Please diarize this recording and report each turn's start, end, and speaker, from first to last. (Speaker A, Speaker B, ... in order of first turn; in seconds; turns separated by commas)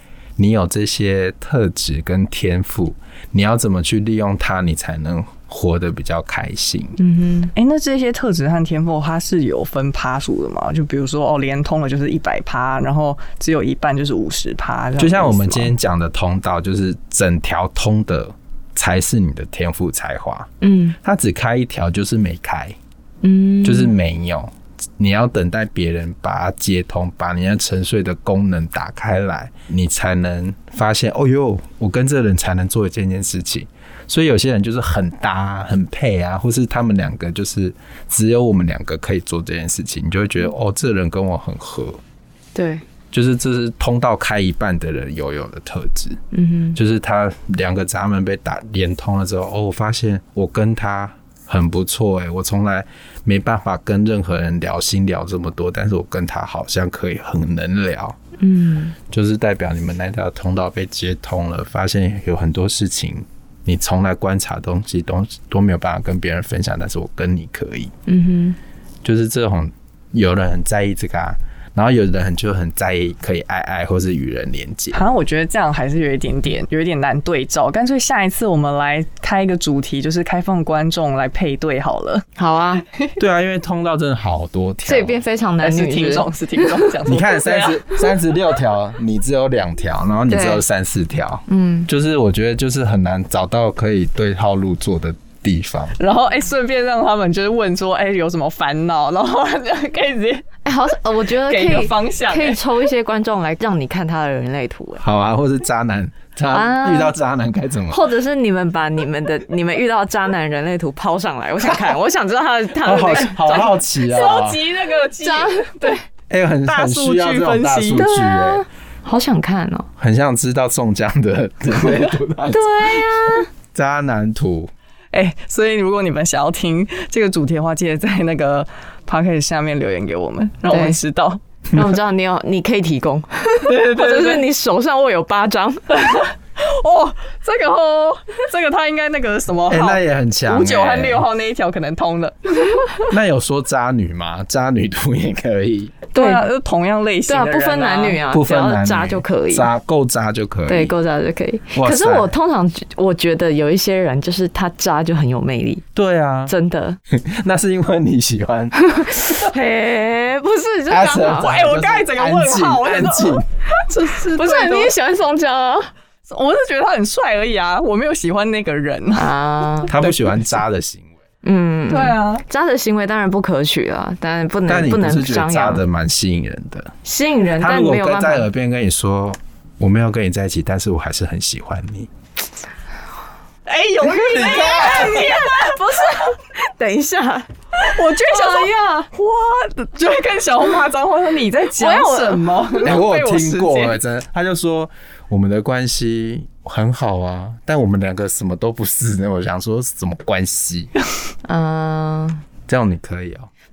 Speaker A: 0.4-7.0, Speaker B: 7.0-7.5, Speaker C: 7.5-15.7, Speaker A: 15.0-20.5, Speaker B: 20.6-21.0, Speaker A: 21.0-22.8, Speaker B: 23.2-23.9, Speaker A: 23.6-42.0, Speaker B: 42.5-42.8, Speaker A: 43.1-46.2, Speaker B: 46.3-46.8, Speaker A: 46.8-58.2, Speaker B: 58.4-59.0, Speaker A: 59.0-67.9, Speaker B: 68.1-68.6, Speaker A: 69.0-75.1, Speaker C: 74.9-82.3, Speaker B: 82.4-82.8, Speaker A: 83.2-85.2, Speaker B: 84.8-86.9, Speaker C: 85.6-88.2, Speaker A: 87.0-96.0, Speaker B: 90.3-90.6, Speaker B: 91.5-91.9, Speaker C: 96.0-100.5, Speaker B: 100.7-105.0, Speaker C: 101.4-102.6, Speaker A: 105.0-108.0, Speaker B: 106.5-107.1, Speaker B: 107.9-113.7, Speaker A: 112.8-114.6, Speaker C: 113.5-116.0, Speaker B: 115.2-116.0, Speaker A: 116.3-118.6, Speaker C: 116.7-118.1, Speaker B: 117.9-119.9, Speaker A: 120.0-123.0, Speaker B: 122.5-123.5, Speaker A: 123.7-124.7, Speaker C: 125.1-131.4, Speaker B: 130.7-131.0, Speaker B: 131.7-136.2, Speaker C: 133.7-134.5, Speaker C: 136.0-143.1, Speaker A: 139.7-141.3, Speaker A: 143.1-146.0, Speaker B: 146.1-146.5, Speaker C: 146.2-148.2, Speaker B: 147.3-149.7, Speaker A: 148.3-150.9, Speaker B: 150.7-155.8, Speaker A: 151.7-152.3, Speaker A: 155.9-156.5, Speaker B: 156.5-157.0, Speaker A: 157.1-158.8, Speaker B: 158.8-161.5, Speaker A: 160.9-163.4, Speaker C: 161.3-164.9, Speaker B: 164.3-165.9, Speaker C: 166.3-170.6, Speaker B: 169.2-169.9, Speaker A: 169.9-171.1, Speaker B: 171.4-175.8, Speaker C: 171.9-172.4, Speaker A: 174.7-176.9, Speaker B: 177.0-178.5, Speaker A: 177.6-182.1, Speaker C: 183.7-186.2, Speaker A: 184.2-185.2, Speaker B: 184.4-189.1, Speaker C: 187.8-194.0, Speaker B: 191.8-192.8, Speaker A: 192.8-200.9, Speaker B: 201.4-202.4, Speaker A: 202.7-203.5